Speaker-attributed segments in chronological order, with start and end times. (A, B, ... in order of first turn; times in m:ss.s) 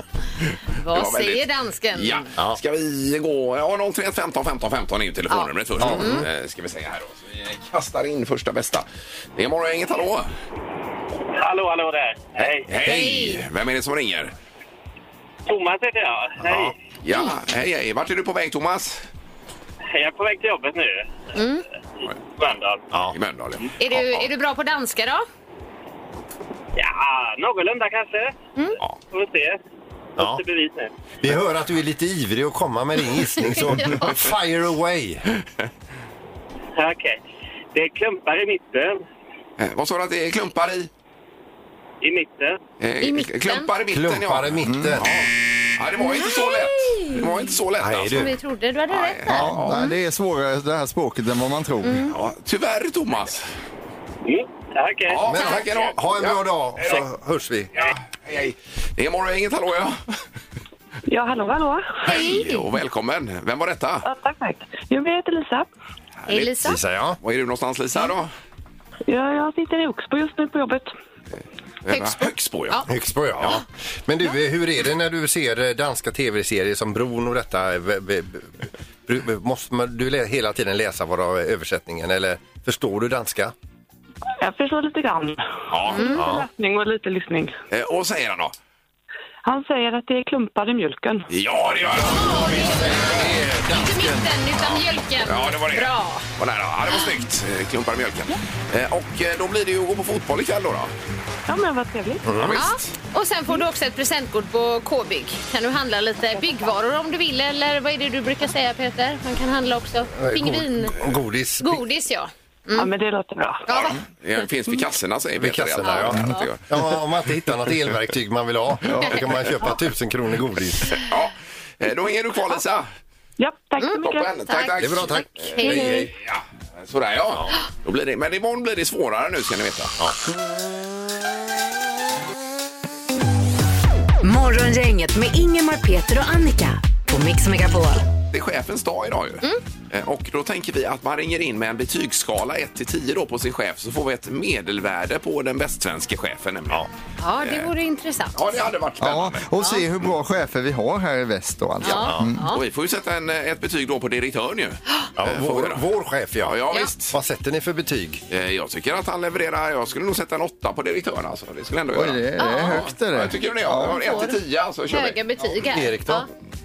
0:00.8-0:02.3 A
0:00.9-0:10.3 B
0:05.3-0:06.2 A
0:05.8-0:06.2 C
0:11.4-0:12.7 D
0:12.6-0:14.3 B
0:12.8-0:13.4 A
0:15.4-0:16.7 D
0:17.0-0:19.0 B
0:19.9-0:21.1 D
0:21.3-0:21.6 A
0:22.4-0:22.8 D
0:22.9-0:23.2 C
0:23.1-0:24.3 B
0:23.8-0:25.2 A
0:26.8-0:28.3 D
0:29.1-0:29.6 D
0:30.2-0:30.9 D
0:31.2-0:35.2 C
0:33.5-0:34.1 A
0:36.8-0:37.2 D
0:37.7-0:39.0 D
0:39.6-0:40.9 B
0:42.0-0:42.6 D
0:42.8-0:48.3 B
0:43.0-0:43.7 A
0:43.9-0:45.1 C
0:44.6-0:45.0 E
0:46.0-0:47.3 A
0:47.8-0:48.3 C
0:48.1-0:49.9 A
0:48.9-0:49.8 B
0:49.3-0:52.1 E
0:51.8-0:52.1 A
0:52.1-0:53.5 B
0:54.2-0:55.2 D
0:55.1-0:57.0 B
0:55.3-0:57.7 C
0:57.8-1:00.2 B
1:01.1-1:02.1 F
1:02.0-1:02.6 A
1:02.1-1:04.0 B
1:04.0-1:05.7 F
1:06.3-1:06.6 B
1:06.3-1:06.8 A
1:06.6-1:07.2 C
1:07.2-1:08.3 B
1:09.1-1:10.9 F
1:11.8-1:12.8 B
1:11.9-1:12.9 A
1:12.9-1:23.5 C
1:24.4-1:27.5 F
1:25.7-1:26.2 B
1:25.9-1:26.2 A
1:26.2-1:26.5 C
1:27.7-1:28.5 B
1:29.4-1:31.3 F
1:31.3-1:32.9 B
1:32.0-1:34.4 C
1:32.0-1:36.2 A
1:35.2-1:40.9 B
1:41.5-1:42.3 F
1:42.2-1:42.6 C
1:42.4-1:42.9 B
1:42.5-1:51.0 A
1:50.2-1:51.8 C
1:51.6-1:52.9 A
1:52.7-1:53.7 F
1:53.7-1:54.0 A
1:53.7-1:56.6 B
1:55.4-2:01.0 C
1:55.8-1:56.5 A
2:01.0-2:02.9 B
2:03.4-2:04.3 F
2:03.8-2:06.1 A
2:04.0-2:10.0 B
2:04.8-2:06.1 C
2:05.7-2:06.0 F
2:14.2-2:18.0 G
2:18.3-2:26.8 B
2:27.2-2:28.5 A
2:27.4-2:27.7 B
2:28.3-2:29.4 B
2:29.0-2:32.5 E
2:31.8-2:32.6 A
2:31.9-2:32.3 C
2:32.5-2:35.8 B
2:35.2-2:38.2 C
2:36.4-2:37.1 B
2:38.3-2:45.2 B
2:41.9-2:44.0 E
2:42.4-2:42.8 A
2:43.8-2:44.4 A
2:44.9-2:46.3 A
2:45.6-2:46.2 C